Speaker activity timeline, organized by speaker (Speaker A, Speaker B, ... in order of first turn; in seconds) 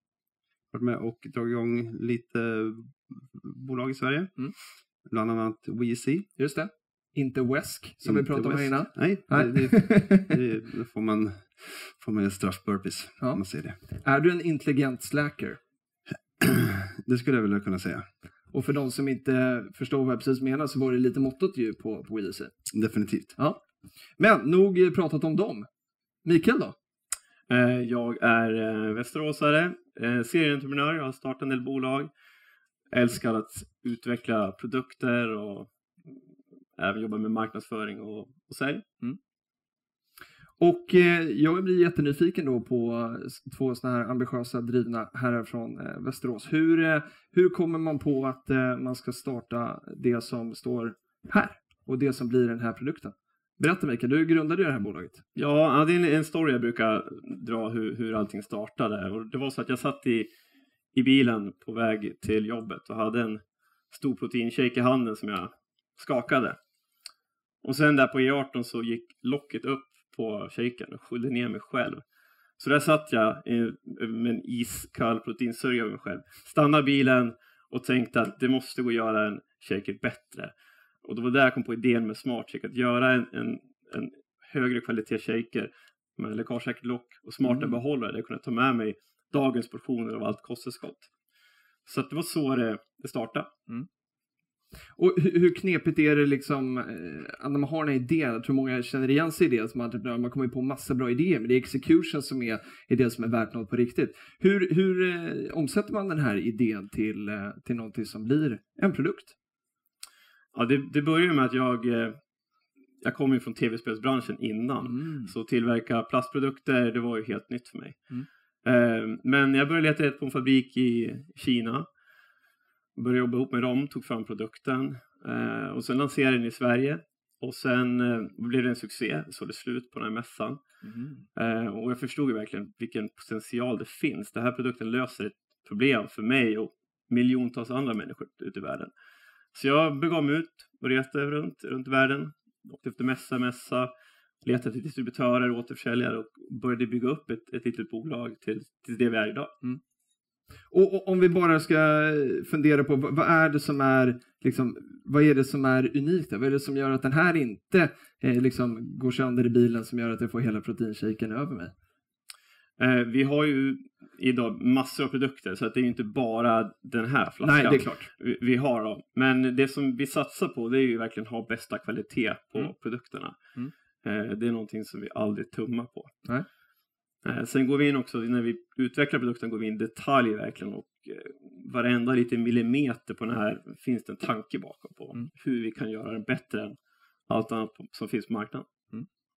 Speaker A: 0.7-4.4, 5.1-6.3, 8.0-13.8, 16.4-18.1, 22.7-23.4
Speaker B: 6.4-10.3, 13.2-15.6, 18.5-22.6, 24.2-25.7, 26.2-26.8, 40.6-55.2, 87.5-87.8, 95.0-109.3, 114.8-115.3, 130.8-131.2, 150.7-161.7, 167.4-168.1
Speaker C: 27.5-32.1, 32.9-35.7, 36.8-38.9, 55.4-60.3, 60.9-66.6, 67.6-72.0, 72.6-91.1, 91.9-93.5, 110.5-112.2, 113.0-118.1, 118.6-121.9, 123.0-130.6, 131.4-138.9, 139.5-143.9, 144.4-149.5, 162.8-173.4, 174.0-176.2, 177.2-186.8, 187.3-188.7